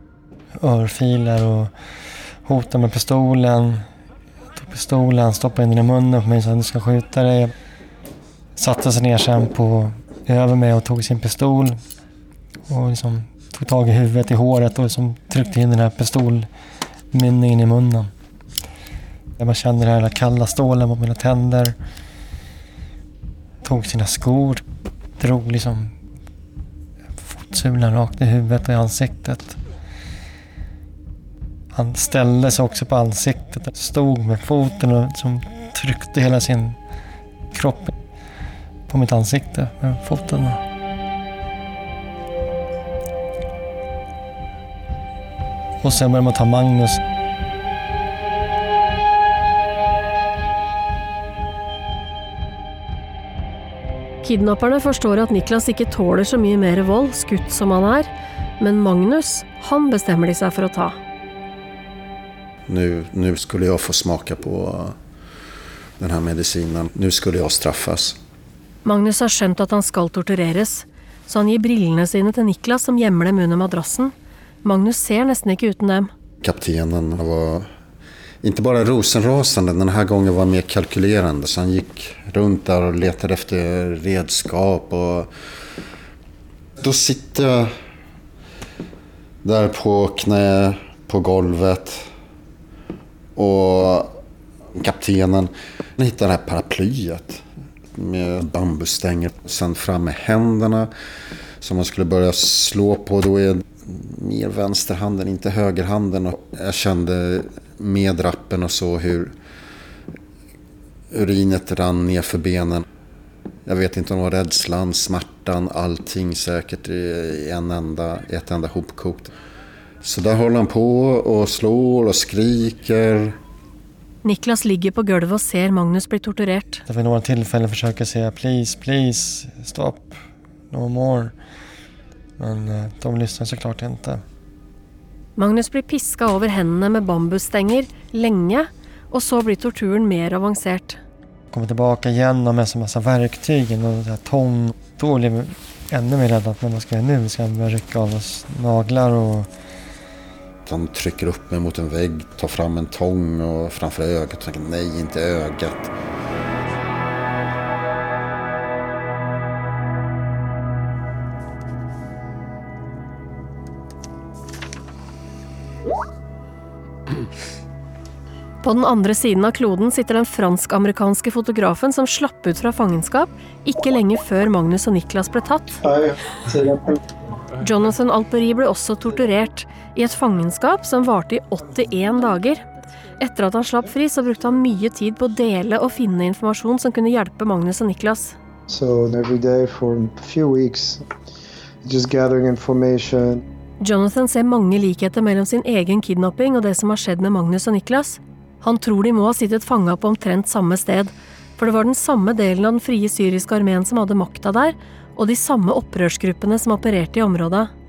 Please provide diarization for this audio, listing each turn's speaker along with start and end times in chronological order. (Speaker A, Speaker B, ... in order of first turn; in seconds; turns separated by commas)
Speaker A: 0.6-1.7, Speaker A: 2.4-3.9, Speaker A: 4.5-7.5, Speaker A: 8.6-11.8, Speaker A: 12.7-16.5, Speaker A: 17.1-18.1, Speaker A: 19.4-21.7, Speaker A: 23.6-24.6, Speaker A: 25.2-25.9, Speaker A: 27.2-29.6, Speaker A: 31.7-36.8, Speaker A: 37.5-37.9, Speaker A: 38.9-40.6, Speaker A: 45.8-47.0, Speaker B: 54.2-61.0, Speaker C: 62.7-65.0, Speaker C: 66.0-68.2, Speaker B: 68.8-76.1, Speaker C: 76.4-77.7, Speaker C: 78.4-85.3, Speaker C: 86.8-87.7, Speaker C: 89.4-92.0, Speaker C: 93.3-94.1, Speaker C: 94.8-97.4, Speaker C: 97.9-100.9, Speaker C: 101.6-109.3, Speaker C: 111.1-112.8, Speaker C: 113.7-119.3, Speaker C: 120.0-123.4, Speaker B: 124.2-126.8, Speaker A: 126.9-130.2, Speaker A: 130.7-131.3, Speaker A: 132.4-134.2, Speaker B: 135.3-141.0, Speaker A: 141.5-149.5, Speaker C: 150.6-155.9, Speaker B: 168.6-175.8, Speaker D: 175.8-177.0, Speaker B: 177.6-182.6, Speaker B: 183.2-188.3, Speaker D: 188.7-191.0, Speaker D: 191.8-193.4, Speaker B: 193.8-207.7